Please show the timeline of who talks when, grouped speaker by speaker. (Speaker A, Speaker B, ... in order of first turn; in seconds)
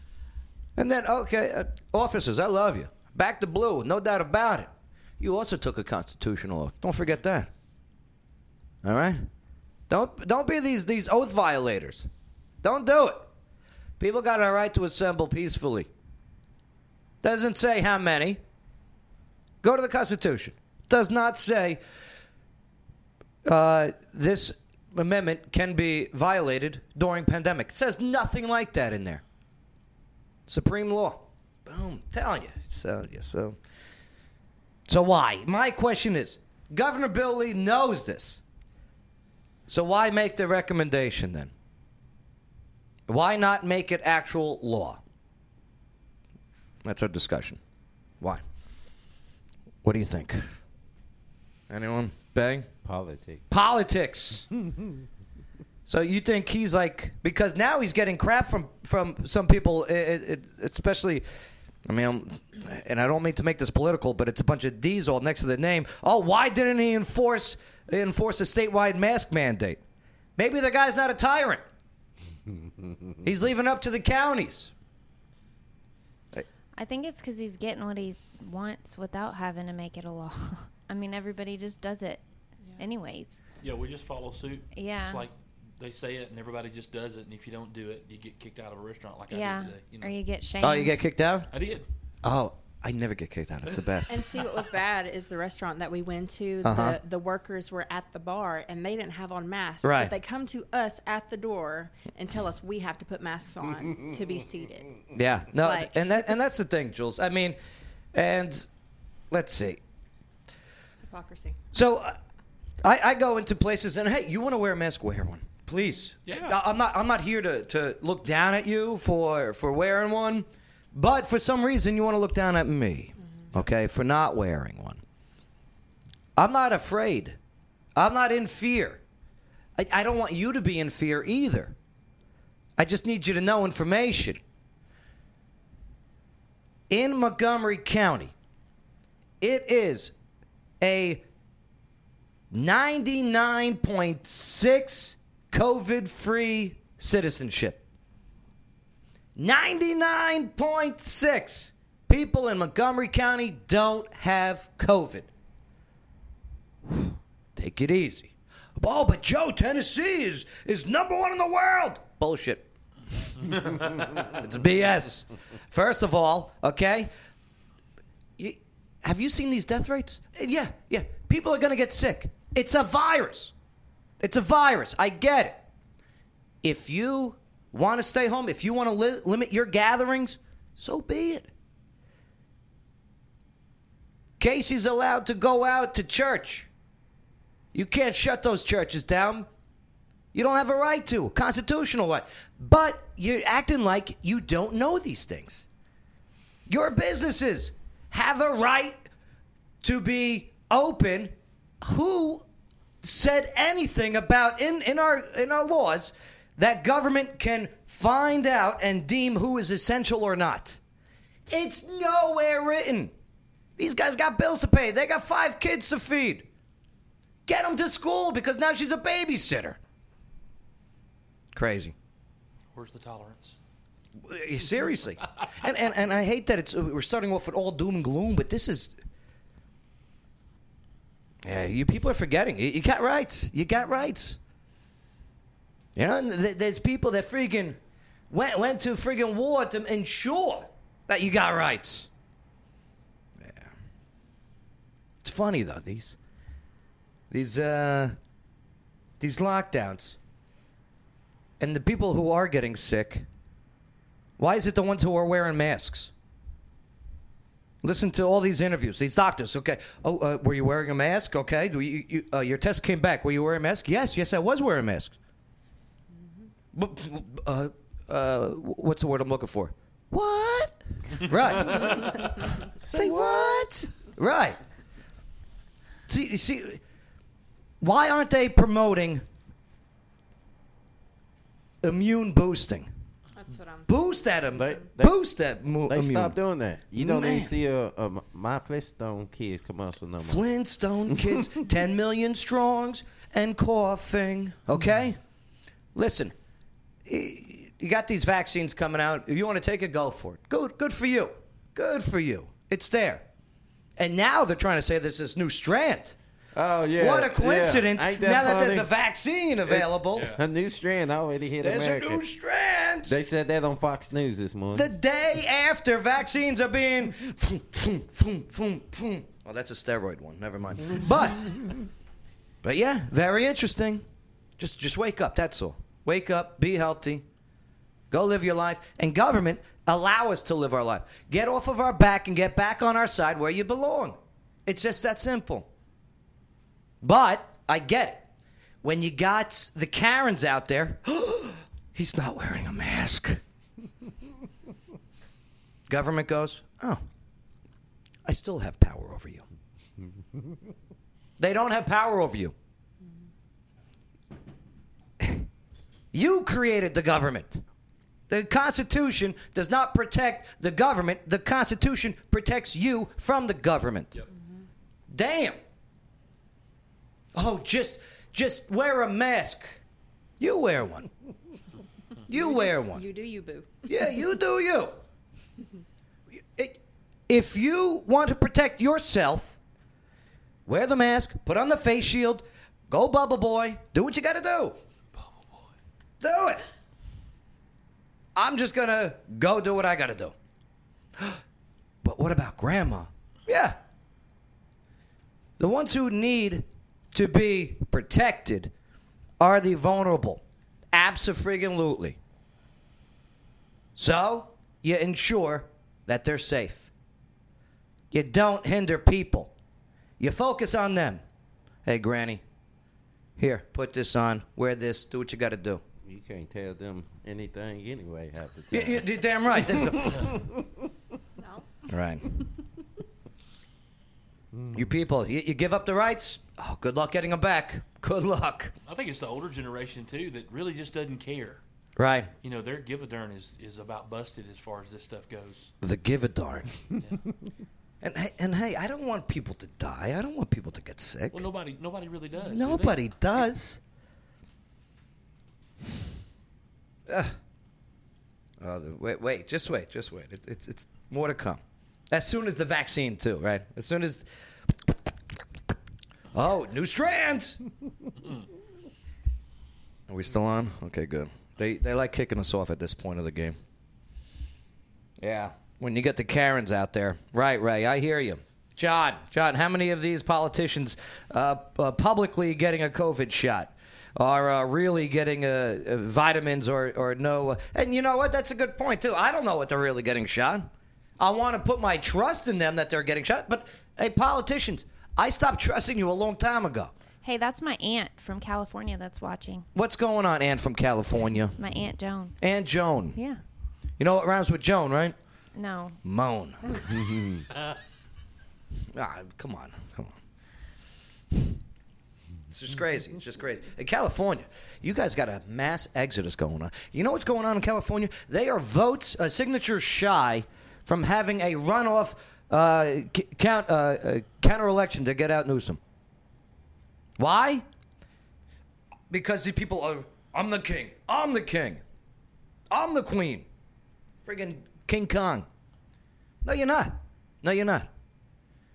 Speaker A: 0.8-7.5, 8.8-9.3, 9.9-12.1, 12.6-13.3, 14.0-15.9, 17.2-18.4, 19.6-21.8, 23.4-29.2, 30.5-33.6, 34.9-38.4, 39.7-41.5, 43.1-45.0, 46.8-47.6, 49.8-50.5, 51.7-52.7, 53.5-54.5, 55.9-61.2, 61.9-69.8, 70.4-71.6, 73.2-74.7, 90.6-91.5, 92.2-94.2, 96.6-97.0, 99.8-100.1, 105.1-107.6, 108.1-108.7, 109.3-109.8, 111.7-112.1, 112.8-125.0, 126.3-127.4, 128.0-129.0, 129.8-131.7, 132.8-134.4, 136.9-138.3, 139.4-140.1, 140.8-141.2, 142.5-147.8, 149.4-155.3, 156.9-162.7, 163.2-163.7, 164.3-167.1, 168.4-173.5, 174.2-175.6, 176.6-181.5, 184.4-186.7, 187.7-189.5, 190.3-195.7, 196.7-199.0, 199.8-202.4, 203.0-210.8, 211.5-213.1, 213.8-216.5, 217.4-219.8, 221.5-221.9, 224.2-228.9, 231.4-234.4, 235.9-237.8, 238.3-242.1, 243.4-243.7, 245.2-246.2, 247.3-248.2, 249.2-250.2, 251.6-253.3, 254.4-256.1, 257.8-265.1, 266.7-272.3, 272.9-274.6, 276.1-276.8, 277.8-279.2, 281.8-282.9, 283.9-286.4, 286.9-287.5, 290.2-295.2, 295.9-296.3, 297.1-303.2, 304.0-306.1, 307.0-310.3, 311.6-313.1, 314.7-321.5, 322.6-324.0, 324.6-327.2, 328.1-335.7, 337.0-338.2, 338.8-343.4, 345.9-347.0, 348.2-349.4, 351.4-352.5, 356.1-357.6, 358.3-364.2, 365.1-365.6, 367.3-369.8, 370.4-371.1, 372.3-373.0, 373.9-375.0, 376.5-379.6, 380.7-384.8, 386.2-386.6, 388.3-390.3, 392.0-393.8, 395.6-398.7, 399.4-400.4, 400.9-402.2, 404.0-406.9, 408.1-409.5, 410.2-411.2, 411.9-412.4, 413.4-415.8, 418.7-420.2, 421.9-422.2, 424.7-428.7, 432.0-432.3, 435.8-436.7, 438.0-441.4, 442.5-443.8, 447.1-447.4, 448.6-454.2, 456.3-457.6, 460.1-463.6, 465.2-480.7, 481.2-486.9, 489.7-491.6, 492.4-493.2, 494.0-495.1, 496.0-496.6, 498.9-500.1, 502.5-515.8, 517.2-517.6, 519.1-521.8, 522.7-523.4, 524.2-525.5, 526.4-527.9
Speaker B: 52.8-53.4, 272.9-273.2, 284.5-285.1, 285.9-290.4, 306.5-308.9, 309.7-312.2, 313.1-314.9, 416.0-420.5, 496.9-497.4
Speaker C: 76.8-82.2, 82.8-83.4, 84.7-85.3, 89.3-91.0, 487.2-489.7, 491.6-492.4, 493.1-493.4, 495.5-496.0
Speaker D: 82.6-82.9, 94.1-106.3, 111.0-111.6, 283.4-284.8, 372.3-373.9, 421.4-421.7
Speaker E: 83.6-90.2, 91.5-91.8, 116.2-116.5, 163.4-164.1, 222.7-223.6, 271.7-272.1, 310.1-310.4, 385.1-385.7, 428.9-431.6, 432.4-435.7, 441.3-443.0